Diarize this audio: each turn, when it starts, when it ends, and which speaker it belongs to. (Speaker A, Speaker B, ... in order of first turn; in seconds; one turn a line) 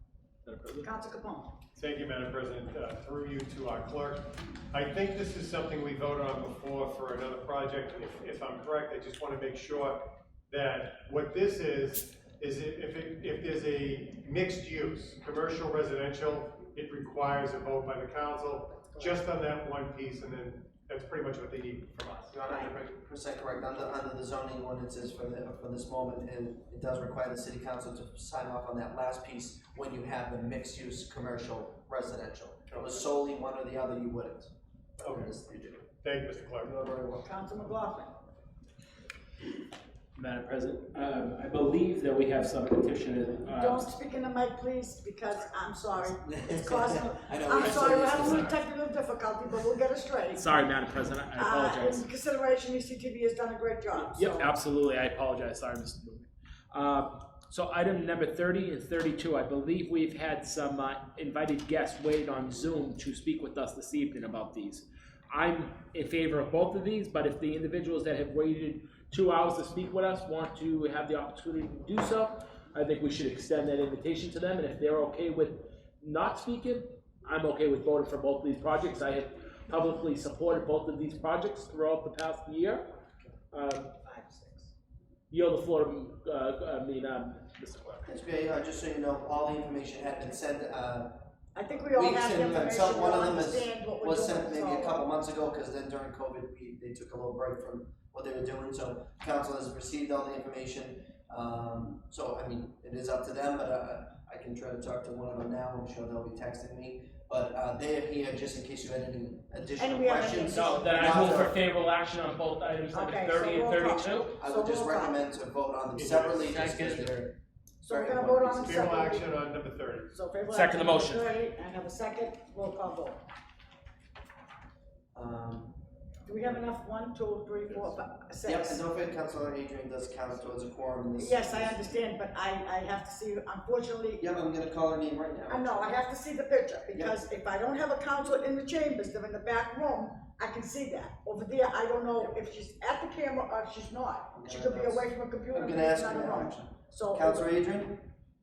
Speaker A: 0.5-0.9
Speaker B: 0.8-1.5
Speaker C: 1.7-22.8
Speaker B: 18.9-19.2
Speaker D: 22.4-35.9
Speaker C: 32.7-33.0
Speaker C: 35.0-35.3
Speaker C: 36.0-36.7
Speaker D: 36.6-37.3
Speaker B: 37.2-38.1
Speaker A: 40.1-43.9
Speaker B: 43.5-50.5
Speaker D: 46.2-48.6
Speaker A: 47.5-48.5
Speaker A: 50.3-52.0
Speaker B: 51.3-54.5
Speaker A: 53.9-82.9
Speaker A: 83.5-83.9
Speaker B: 84.0-84.7
Speaker A: 85.3-88.1
Speaker D: 88.0-91.3
Speaker B: 91.5-95.0
Speaker D: 91.9-111.5
Speaker B: 109.8-111.5
Speaker A: 110.3-114.3
Speaker B: 112.9-115.2
Speaker D: 114.4-117.2
Speaker C: 115.9-116.5
Speaker A: 116.5-117.3
Speaker B: 117.8-119.5
Speaker D: 117.9-118.8
Speaker C: 118.6-120.1
Speaker B: 120.1-123.2
Speaker A: 120.5-121.3
Speaker D: 125.1-125.8
Speaker B: 126.2-128.8
Speaker D: 128.4-132.0
Speaker B: 131.2-134.2
Speaker D: 134.2-135.9
Speaker B: 135.5-147.5
Speaker D: 144.3-148.1